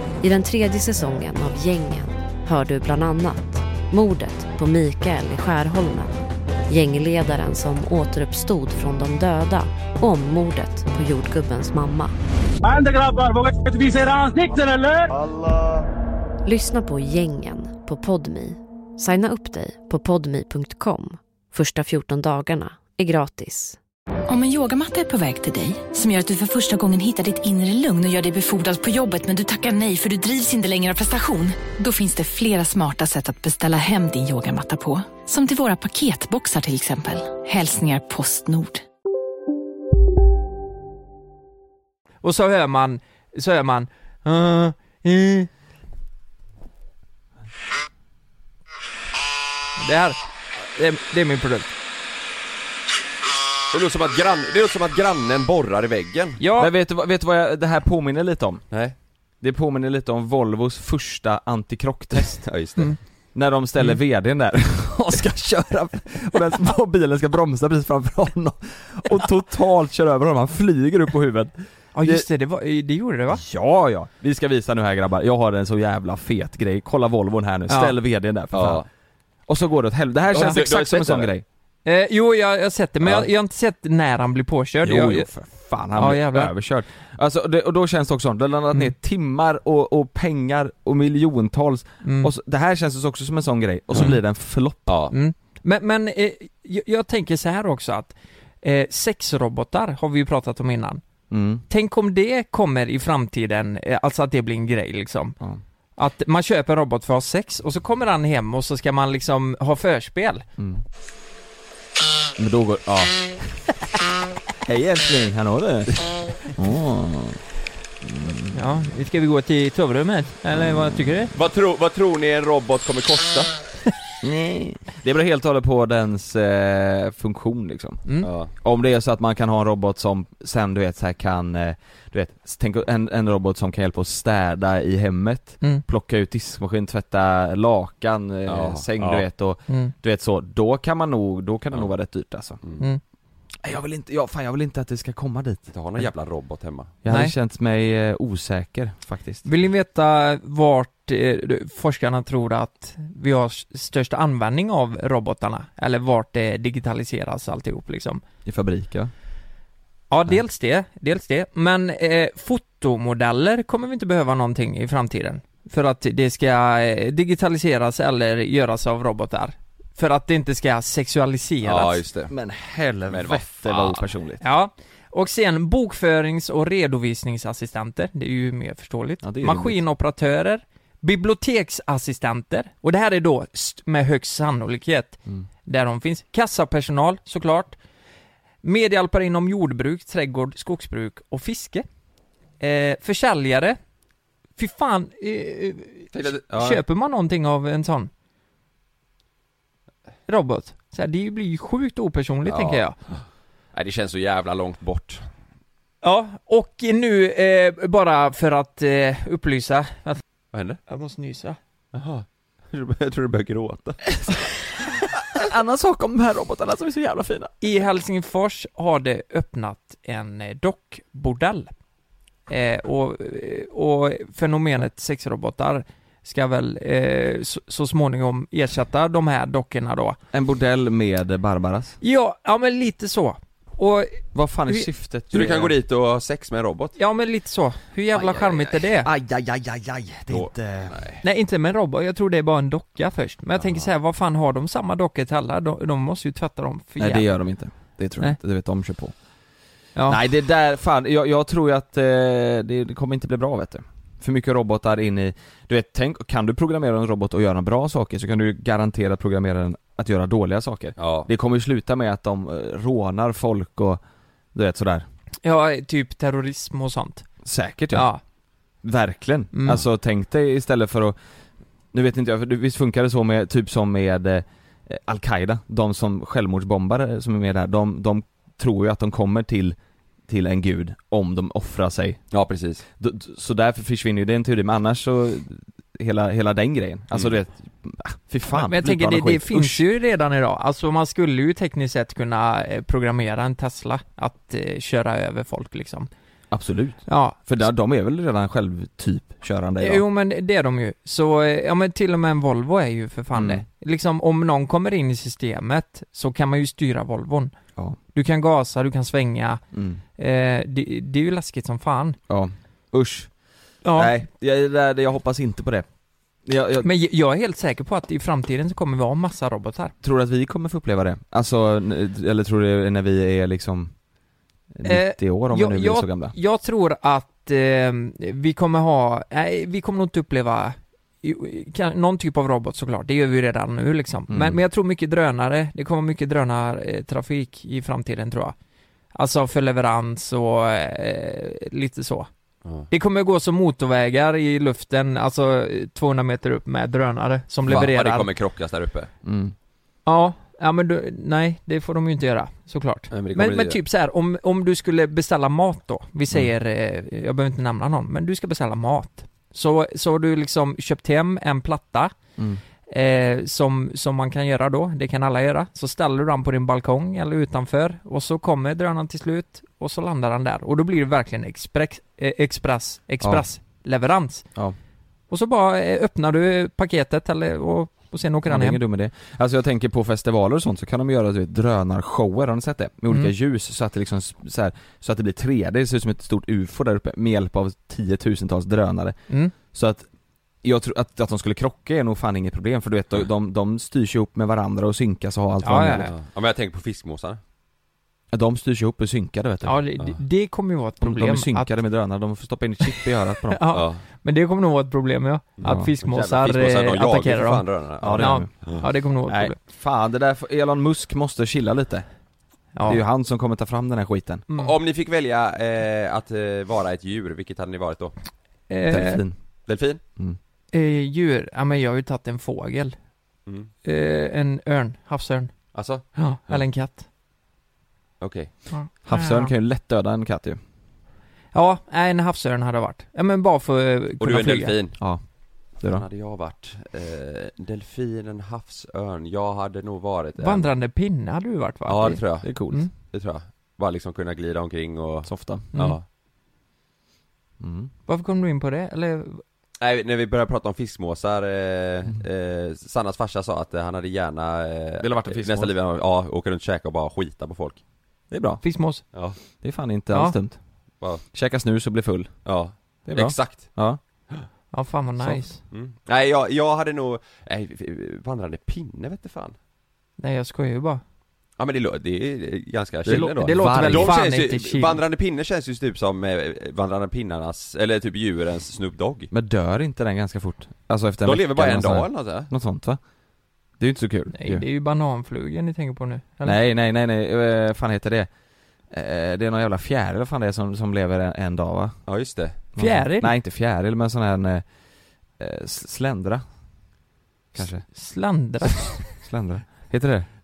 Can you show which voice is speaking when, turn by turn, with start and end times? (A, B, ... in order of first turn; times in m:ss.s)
0:00.2-0:06.1 A
0:06.7-0:12.1 A
0:12.6-0:15.1 B
0:16.4-0:23.8 A
0:24.3-0:38.8 C
0:42.2-0:45.5 D
0:49.8-0:50.2 D
0:50.7-0:51.7 D
0:53.7-0:56.4 E
0:56.4-0:56.7 D
0:56.6-0:58.6 F
0:59.4-1:02.5 F
1:02.4-1:02.9 E
1:03.3-1:12.2 F
1:11.9-1:13.4 D
1:13.3-1:18.8 F
1:17.7-1:17.9 D
1:18.5-1:18.8 E
1:19.5-1:21.4 F
1:20.3-1:21.3 E
1:21.8-1:25.3 D
1:24.8-1:34.9 F
1:26.0-1:26.5 D
1:32.0-1:32.3 D
1:34.9-1:35.1 E
1:35.1-1:41.0 D
1:41.3-1:41.6 F
1:41.7-1:45.4 D
1:46.0-1:50.4 D
1:50.6-1:50.8 F
1:52.4-1:53.3 F
1:54.6-1:57.4 F
1:58.0-1:58.8 F
1:58.5-2:01.3 D
2:00.6-2:00.9 F
2:01.3-2:03.5 E
2:04.2-2:08.0 F
2:08.2-2:08.5 E
2:08.6-2:22.6 F
2:18.5-2:19.2 E
2:19.7-2:19.9 D
2:23.6-2:26.1 F
2:25.7-2:26.9 E
2:27.0-2:29.4 F
2:27.1-2:27.3 D
2:29.4-2:38.2 D
2:38.4-2:39.1 F
2:40.1-2:52.0 D
2:51.6-2:52.3 E
2:52.3-2:54.4 F
2:53.1-2:54.1 E
2:54.4-3:07.8 D
2:59.2-2:59.8 F
3:08.6-3:11.8 D
3:12.6-3:13.8 D
3:14.6-3:18.1 D
3:16.1-3:16.8 E
3:20.3-3:23.0 D
3:22.5-3:22.8 E
3:23.7-3:25.2 E
3:26.0-3:30.2 D
3:30.5-3:30.8 E
3:30.9-3:31.6 D
3:31.9-3:34.0 E
3:35.3-3:37.5 F
3:37.6-3:41.7 D
3:42.5-3:50.2 D
3:50.3-3:52.0 F
3:52.0-3:54.9 D
3:54.3-3:55.7 F
3:55.3-3:56.9 E
3:57.0-3:59.1 D
3:58.1-3:58.7 E
3:59.0-4:01.0 F
4:00.3-4:01.2 E
4:01.2-4:07.3 D
4:03.6-4:03.8 E
4:07.0-4:09.1 F
4:10.1-4:24.0 F
4:21.0-4:21.3 E
4:24.5-4:25.0 F
4:25.4-4:27.2 D
4:27.4-4:28.1 F
4:27.9-4:28.2 D
4:28.8-4:31.2 F
4:29.5-4:29.8 D
4:31.9-4:39.8 F
4:40.3-4:42.2 F
4:42.3-4:42.8 E
4:43.0-4:49.8 F
4:48.5-4:56.1 D
4:56.5-5:00.0 F
4:57.1-4:57.4 D
4:59.8-5:07.5 D
5:03.3-5:03.6 F
5:08.1-5:09.6 D
5:09.7-5:10.0 F
5:10.2-5:12.2 D
5:12.3-5:13.3 F
5:13.8-5:14.1 D
5:13.9-5:15.9 F
5:16.4-5:16.9 F
5:16.8-5:19.9 D
5:20.0-5:23.9 F
5:24.7-5:26.3 F
5:24.8-5:38.5 D
5:34.3-5:34.6 F
5:39.1-5:42.3 D
5:42.9-5:48.3 D
5:47.6-5:49.1 E
5:49.2-5:49.5 F
5:50.0-6:02.1 D
5:53.1-5:53.8 E
6:02.9-6:14.5 D
6:15.3-6:18.8 D
6:18.5-6:30.1 F
6:30.6-6:36.1 F
6:35.6-6:36.1 D
6:36.0-6:37.4 E
6:38.3-6:39.8 F
6:39.6-6:41.7 D
6:41.0-6:43.6 F
6:42.9-6:49.6 D
6:43.7-6:44.0 E
6:45.6-6:48.8 E
6:45.6-6:45.9 F
6:48.0-6:52.0 F
6:52.7-6:53.0 D
6:52.8-6:54.4 F
6:54.6-6:58.1 E
6:58.7-6:59.2 D
6:58.9-6:59.3 F
6:59.7-7:00.0 E
7:00.7-7:03.0 D
7:03.8-7:05.5 D
7:05.7-7:06.6 E
7:06.1-7:07.0 D
7:08.2-7:08.5 E
7:08.7-7:09.5 D
7:09.0-7:10.6 F
7:11.5-7:14.7 D
7:14.2-7:15.0 E
7:15.8-7:16.0 F
7:15.9-7:20.7 E
7:20.4-7:22.9 D
7:21.9-7:26.0 E
7:22.4-7:22.8 F
7:25.2-7:25.6 F
7:27.6-7:27.9 F
7:28.1-7:29.4 D
7:29.8-7:37.8 E
7:35.0-7:35.7 F
7:38.3-7:38.6 F
7:38.6-7:39.0 D
7:39.6-7:40.6 F
7:41.3-7:42.4 F
7:42.4-7:43.8 E
7:43.0-7:44.0 F
7:44.7-7:45.6 D
7:45.7-7:49.5 E
7:50.2-7:51.0 D
7:51.6-7:59.3 E
7:53.0-7:54.2 F
7:53.1-7:55.0 D
7:59.3-8:03.0 F
8:01.2-8:02.5 E
8:03.8-8:04.6 F
8:04.3-8:06.6 D
8:06.4-8:08.3 F
8:08.9-8:11.9 F
8:12.1-8:12.5 E
8:12.7-8:14.6 F
8:12.8-8:13.3 D
8:15.4-8:16.4 F
8:17.5-8:17.8 F
8:17.8-8:19.0 D
8:19.0-8:20.3 F